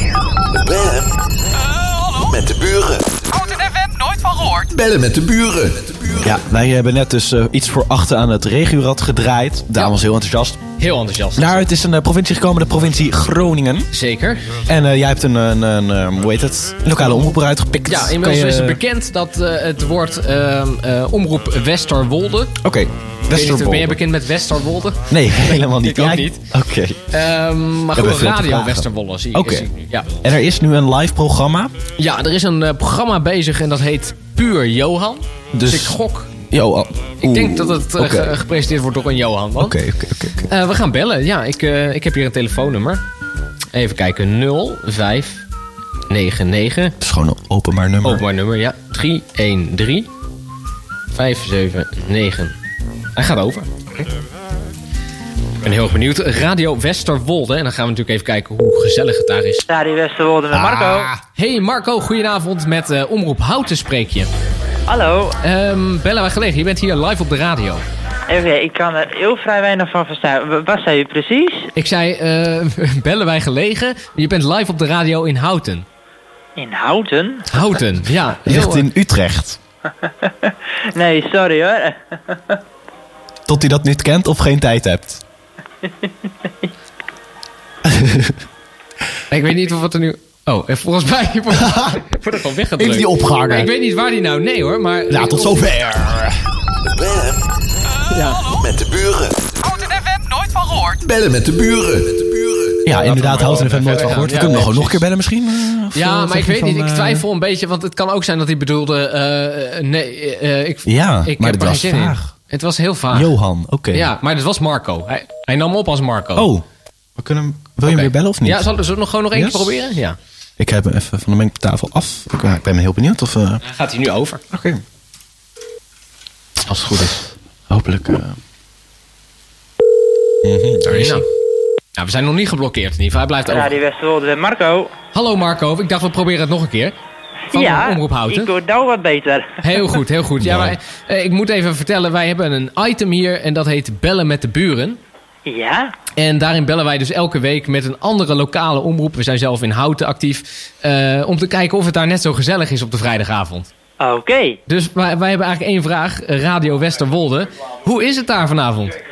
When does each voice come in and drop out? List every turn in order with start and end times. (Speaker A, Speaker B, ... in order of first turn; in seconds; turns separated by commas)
Speaker A: 0.7-1.0, Speaker A: 2.3-3.0, Speaker B: 3.4-4.7, Speaker A: 4.7-6.2, Speaker C: 6.2-10.6, Speaker D: 10.8-11.6, Speaker C: 11.4-13.9, Speaker D: 13.9-14.5, Speaker C: 14.7-18.8, Speaker D: 17.9-22.6, Speaker C: 22.6-24.0, Speaker D: 23.3-26.4, Speaker C: 25.1-27.0, Speaker D: 27.1-30.1, Speaker C: 27.9-29.7, Speaker C: 30.2-31.7, Speaker D: 32.0-36.3, Speaker C: 35.5-36.0, Speaker C: 36.5-38.3, Speaker D: 37.2-39.8, Speaker C: 39.6-40.5, Speaker D: 40.5-43.0, Speaker D: 43.7-45.5, Speaker D: 46.1-47.0, Speaker C: 47.0-48.2, Speaker D: 48.0-50.1, Speaker D: 51.1-52.6, Speaker D: 53.1-54.0, Speaker D: 55.6-59.6, Speaker E: 59.7-61.1, Speaker D: 60.6-64.3, Speaker E: 64.9-65.4, Speaker D: 65.4-67.8, Speaker E: 68.3-71.7, Speaker D: 71.8-75.9, Speaker E: 76.6-77.5, Speaker D: 77.5-78.9, Speaker C: 78.5-79.6, Speaker E: 80.2-82.6, Speaker C: 83.5-85.2, Speaker C: 87.8-88.4, Speaker D: 89.3-95.7, Speaker C: 92.8-93.7, Speaker C: 95.1-96.4, Speaker A: 97.0-97.3, Speaker D: 98.1-98.6, Speaker A: 98.6-99.6, Speaker B: 99.6-100.9, Speaker A: 101.0-102.8, Speaker C: 102.8-107.2, Speaker D: 103.0-105.0, Speaker D: 106.0-113.3, Speaker C: 110.8-112.3, Speaker C: 113.1-114.1, Speaker D: 113.9-116.5, Speaker C: 116.4-116.6, Speaker C: 117.2-118.7, Speaker D: 117.8-120.2, Speaker C: 119.3-119.7, Speaker C: 120.6-123.6, Speaker D: 123.6-124.4, Speaker C: 124.5-124.8, Speaker D: 126.7-127.3, Speaker C: 127.7-128.4, Speaker C: 130.4-131.2, Speaker D: 130.8-131.2, Speaker D: 132.0-133.7, Speaker E: 133.5-134.9, Speaker D: 135.1-136.9, Speaker E: 137.5-139.8, Speaker D: 137.5-138.5, Speaker D: 139.6-145.0, Speaker C: 140.4-140.8, Speaker E: 145.5-145.9, Speaker D: 146.2-153.7, Speaker E: 154.0-154.6, Speaker D: 154.7-158.9